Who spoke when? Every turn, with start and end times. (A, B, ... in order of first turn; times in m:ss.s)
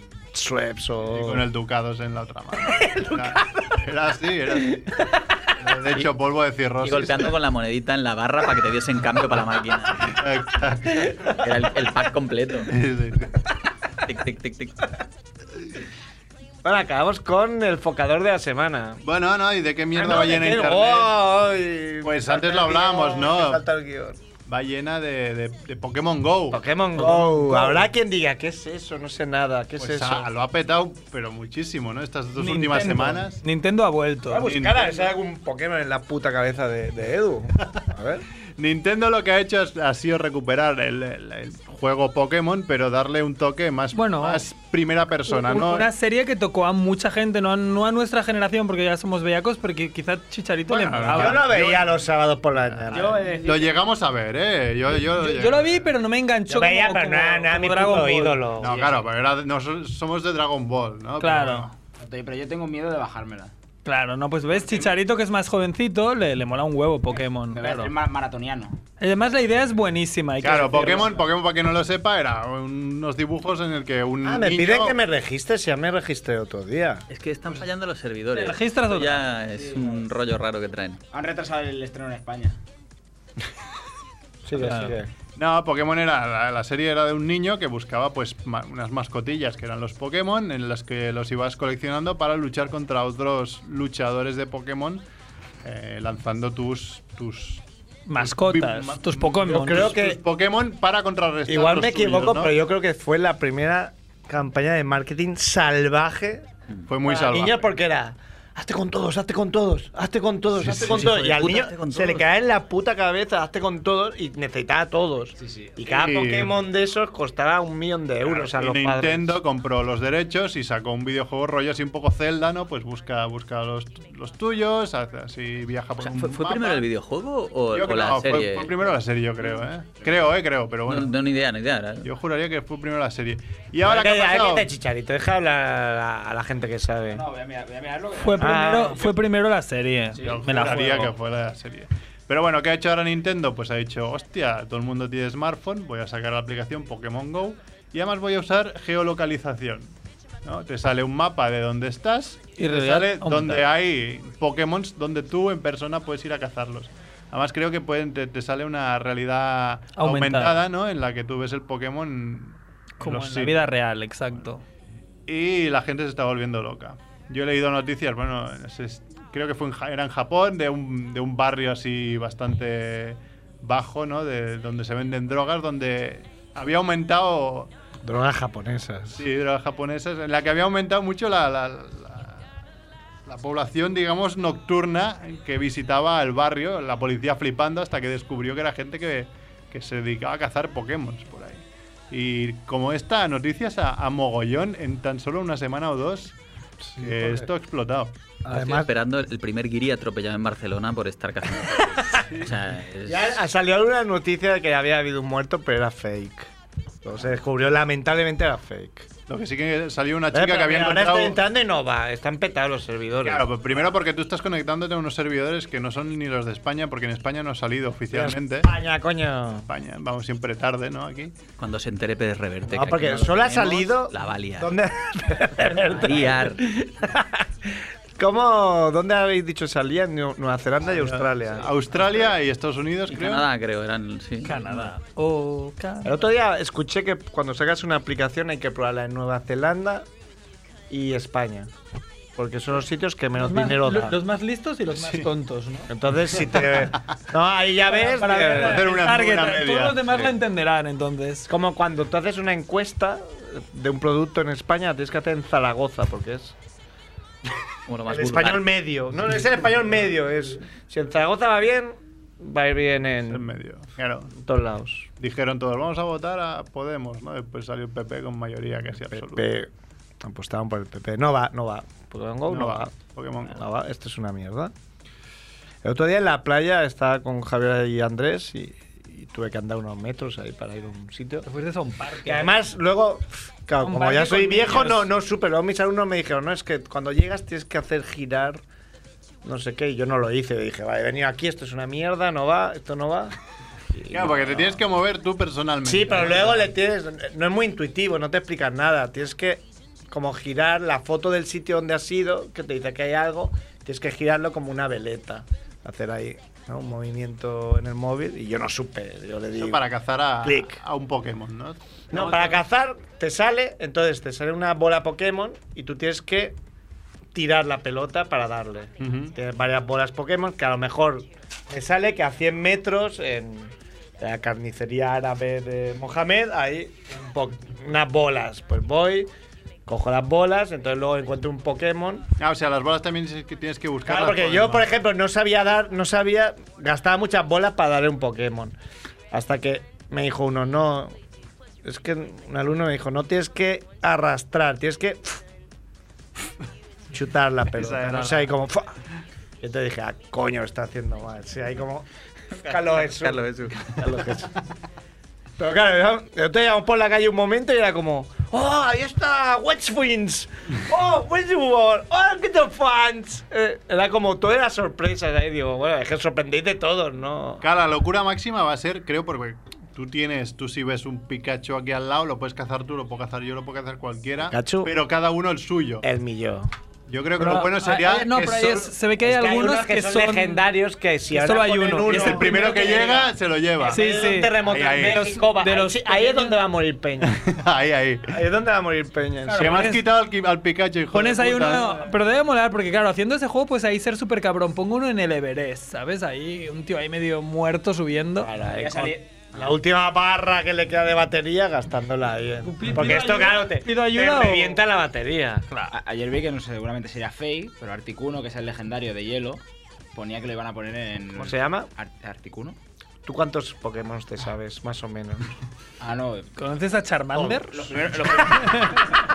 0:00.3-0:01.5 A
0:01.1-0:05.0 B
0:02.7-0:03.5 A
0:05.6-0:07.3 B
0:06.8-0:10.1 C
0:10.0-0:11.4 B
0:11.1-0:11.9 A
0:11.4-0:12.7 C
0:12.7-0:13.4 B
0:14.0-0:14.9 C
0:16.6-0:19.0 A
0:19.0-0:21.1 B
0:19.9-0:24.2 A
0:22.0-0:23.6 B
0:24.4-0:27.8 B
0:26.5-0:30.3 A
0:29.8-0:33.4 B
0:32.4-0:34.5 D
0:34.3-0:38.2 A
0:34.4-0:34.9 B
0:38.6-0:45.9 B
0:43.9-0:44.4 D
0:45.3-0:51.4 D
0:50.7-0:52.0 B
0:51.1-0:53.3 A
0:52.6-0:55.8 B
0:52.9-0:53.8 E
0:55.0-0:58.4 D
0:56.5-0:58.8 A
0:58.6-1:01.7 B
0:58.6-0:59.1 E
1:01.2-1:01.7 D
1:02.0-1:03.5 E
1:03.8-1:07.9 D
1:07.1-1:08.8 E
1:09.0-1:11.2 D
1:10.4-1:15.0 B
1:14.2-1:17.0 A
1:17.1-1:21.0 C
1:18.3-1:19.4 D
1:21.1-1:22.6 E
1:24.4-1:25.1 A
1:24.5-1:25.0 D
1:25.4-1:35.0 B
1:35.6-1:37.6 B
1:38.1-1:40.0 D
1:38.2-1:42.5 B
1:39.5-1:40.2 A
1:41.5-1:46.5 A
1:46.9-1:47.7 B
1:47.0-1:59.4 A
1:50.6-1:51.2 B
1:50.6-1:52.3 C
1:55.4-1:55.8 E
1:55.9-1:56.5 B
1:58.2-2:06.8 B
2:06.0-2:08.7 C
2:07.7-2:11.2 B
2:10.9-2:12.1 C
2:12.0-2:14.7 B
2:13.8-2:17.2 A
2:17.1-2:19.1 E
2:18.1-2:21.1 D
2:18.4-2:19.1 A
2:20.1-2:20.5 E
2:20.2-2:29.9 B
2:30.4-2:43.6 B
2:32.6-2:33.6 D
2:40.0-2:40.6 D
2:43.0-2:44.6 D
2:45.3-2:57.7 B
2:58.0-2:59.2 A
2:59.1-3:02.4 B
3:03.2-3:18.1 B
3:17.0-3:17.5 A
3:18.4-3:18.9 A
3:18.5-3:23.4 C
3:22.3-3:22.5 B
3:23.0-3:26.5 A
3:27.0-3:29.1 A
3:29.3-3:31.4 B
3:30.3-3:33.5 A
3:33.2-3:38.7 B
3:38.1-3:39.7 A
3:39.7-3:41.3 B
3:41.6-3:44.8 C
3:42.6-3:52.0 A
3:45.6-3:46.7 C
3:50.9-3:53.5 B
3:53.1-3:54.9 C
3:54.4-3:56.1 D
3:56.0-4:00.1 A
4:00.9-4:01.7 A
4:02.4-4:04.2 A
4:03.4-4:05.9 D
4:04.9-4:05.3 B
4:05.9-4:08.9 A
4:06.3-4:07.0 B
4:07.9-4:11.5 D
4:08.6-4:10.3 B
4:11.5-4:16.6 A
4:17.9-4:18.6 C
4:18.0-4:23.5 A
4:23.3-4:24.3 B
4:24.3-4:25.1 A
4:25.2-4:29.6 B
4:29.1-4:29.7 A
4:30.2-4:34.7 A
4:32.5-4:33.6 B
4:35.8-4:41.5 A
4:41.4-4:42.6 D
4:42.2-4:48.6 A
4:43.8-4:45.0 D
4:49.4-4:53.3 A
4:53.9-4:54.8 A
4:54.1-4:56.7 B
4:55.8-5:09.8 A
5:09.6-5:11.8 B
5:10.4-5:10.8 A
5:12.1-5:16.6 A
5:17.3-5:29.3 A
5:19.0-5:19.3 B
5:29.8-5:32.3 A
5:32.4-5:34.9 B
5:34.0-5:38.8 A
5:39.3-5:41.2 A
5:41.8-5:45.4 A
5:47.1-5:48.9 A
5:47.7-5:48.5 B
5:49.6-5:54.5 A
5:52.7-5:53.9 C
5:55.6-6:07.6 A
6:07.6-6:16.0 B
6:14.4-6:14.9 A
6:16.0-6:16.7 A
6:17.1-6:18.9 B
6:17.4-6:20.6 D
6:19.2-6:27.3 A
6:21.3-6:22.9 D
6:22.0-6:24.1 B
6:23.8-6:26.6 D
6:24.6-6:25.3 B
6:27.2-6:28.3 B
6:28.3-6:29.9 A
6:29.4-6:30.0 D
6:29.6-6:32.0 B
6:31.1-6:38.5 D
6:38.4-6:45.6 A
6:38.8-6:39.8 E
6:42.6-6:44.8 D
6:45.9-6:49.6 E
6:50.1-6:52.8 E
6:51.3-6:51.9 A
6:53.2-6:55.5 A
6:56.0-6:56.5 E
6:56.6-6:57.8 D
6:57.3-6:58.8 A
6:57.7-6:59.1 E
6:58.5-6:59.2 D